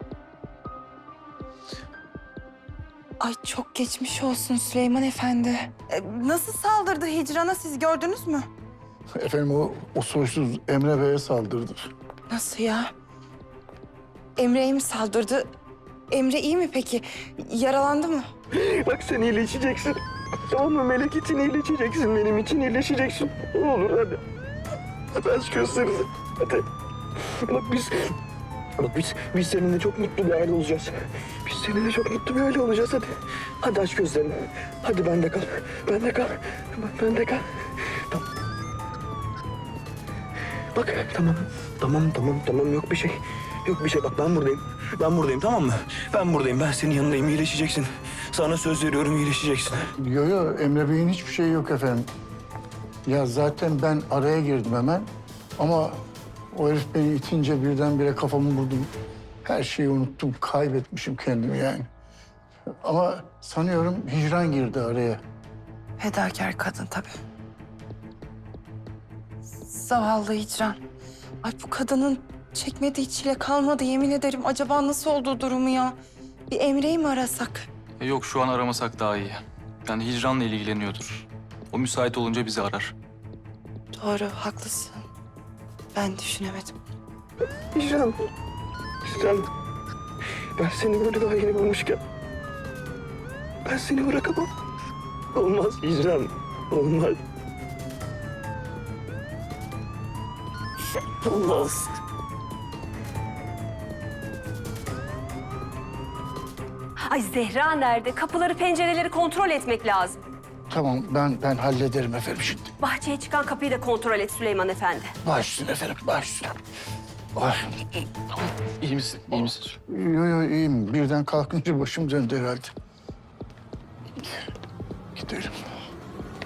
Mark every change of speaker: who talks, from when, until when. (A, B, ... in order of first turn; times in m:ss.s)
0:03.2-0:08.5 A
0:09.2-0:11.9 B
0:12.3-0:12.9 A
0:14.4-0:15.5 A
0:16.1-0:18.2 A
0:18.5-0:24.2 C
0:25.1-0:26.6 C
0:27.4-0:28.1 C
0:28.8-0:33.1 C
0:33.6-0:38.2 C
0:40.8-0:49.9 C
0:50.0-0:52.1 B
0:53.1-0:58.9 B
0:59.4-1:01.9 B
1:02.8-1:05.2 B
1:06.0-1:07.1 A
1:09.7-1:10.8 A
1:11.4-1:16.0 A
1:16.5-1:17.7 A
1:18.0-1:22.9 D
1:24.0-1:25.0 A
1:26.0-1:26.7 A
1:27.7-1:28.2 C
1:29.0-1:29.5 C
1:30.6-1:32.0 C
1:33.7-1:34.5 C
1:35.3-1:37.2 C
1:41.0-1:41.9 C
1:47.0-1:50.2 E
1:50.7-1:52.7 B
1:52.8-1:55.1 E
1:55.2-1:56.5 B
1:57.4-1:58.0 B
1:58.4-1:59.8 D
1:59.9-2:02.7 B
2:05.2-2:05.7 B